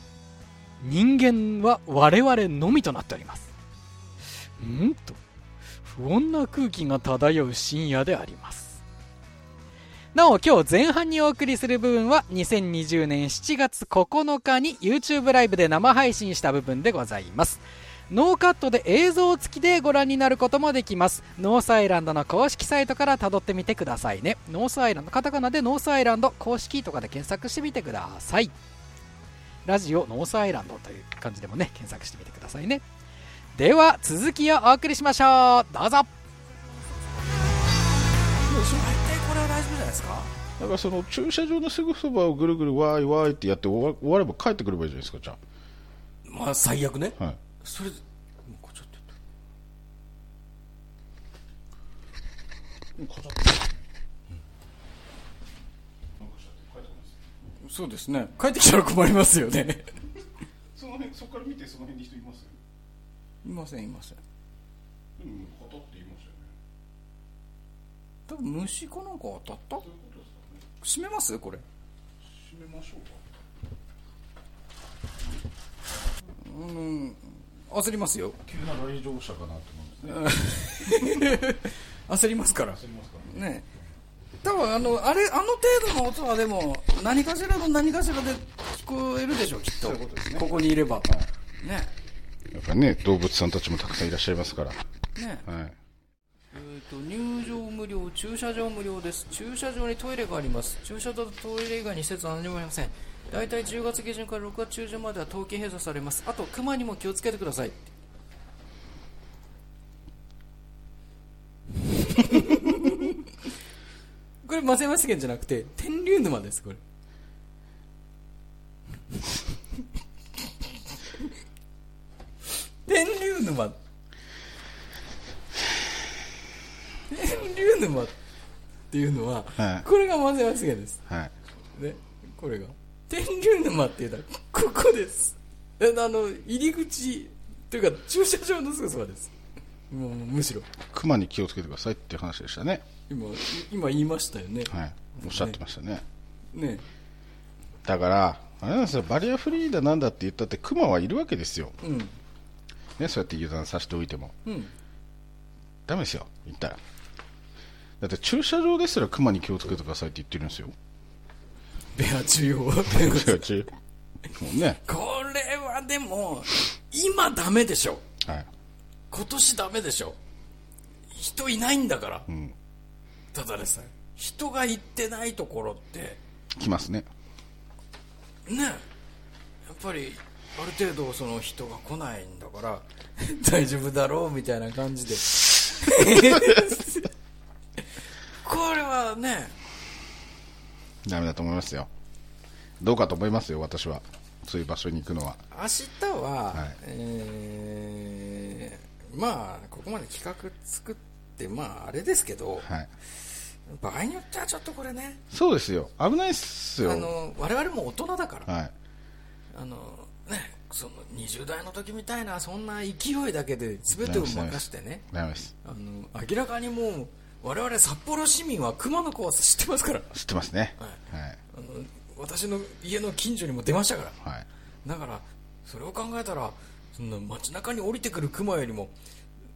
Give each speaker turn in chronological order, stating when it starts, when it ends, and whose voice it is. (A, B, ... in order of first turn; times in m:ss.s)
0:00.8-0:03.5 A
0:04.6-0:05.2 A
0:05.8-0:08.8 A
0:10.1-0:28.5 A
0:29.7-0:32.8 A
0:33.6-0:36.1 A
0:38.5-0:40.3 B
0:40.6-0:45.4 C
0:46.2-0:49.0 B
0:53.0-0:53.7 C
0:56.2-0:57.3 C
0:57.6-0:59.8 B
1:00.8-1:02.6 C
1:03.4-1:04.2 B
1:05.2-1:06.5 C
1:08.3-1:09.9 B
1:09.8-1:10.6 C
1:10.8-1:11.6 B
1:12.2-1:13.2 C
1:16.4-1:18.4 B
1:18.4-1:20.3 C
1:20.1-1:23.7 B
1:22.8-1:23.3 C
1:24.4-1:31.9 B
1:29.8-1:30.5 C
1:32.5-1:34.8 C
1:35.2-1:35.5 B
1:35.5-1:35.8 C
1:36.5-1:47.9 B
1:52.1-1:53.2 B
1:54.4-1:56.8 B
2:02.9-2:03.8 B
2:07.1-2:08.1 B
2:08.9-2:11.0 B
2:09.6-2:09.8 C
2:11.1-2:11.3 C
2:11.7-2:19.3 B
2:19.9-2:20.7 B
2:20.9-2:22.9 C
2:23.1-2:25.6 B
2:24.7-2:26.0 C
2:26.5-2:26.9 B
2:27.8-2:31.8 C
2:31.8-2:32.2 B
2:33.0-2:34.4 C
2:34.4-2:34.7 B
2:35.9-2:36.8 C
2:38.0-2:40.8 C
2:42.0-2:43.4 B
2:42.9-2:43.7 C
2:44.3-2:44.8 C
2:44.8-2:48.0 B
2:48.2-2:48.5 C
2:49.1-2:50.2 B
2:51.1-2:52.3 B
2:52.3-2:52.6 C
2:53.3-2:56.2 B
2:56.6-2:57.1 C
2:58.5-2:58.8 B
2:59.7-3:07.1 B
3:08.4-3:09.6 B
3:11.0-3:11.9 C
3:12.8-3:15.4 C
3:15.5-3:22.7 B
3:22.6-3:22.9 C
3:23.7-3:25.2 B
3:25.3-3:27.1 C
3:26.8-3:28.5 B
3:28.5-3:28.7 C
3:29.5-3:35.0 B
3:34.0-3:35.5 C
3:35.6-3:40.1 B
3:40.1-3:41.4 C
3:41.5-3:44.2 B
3:44.8-3:48.9 B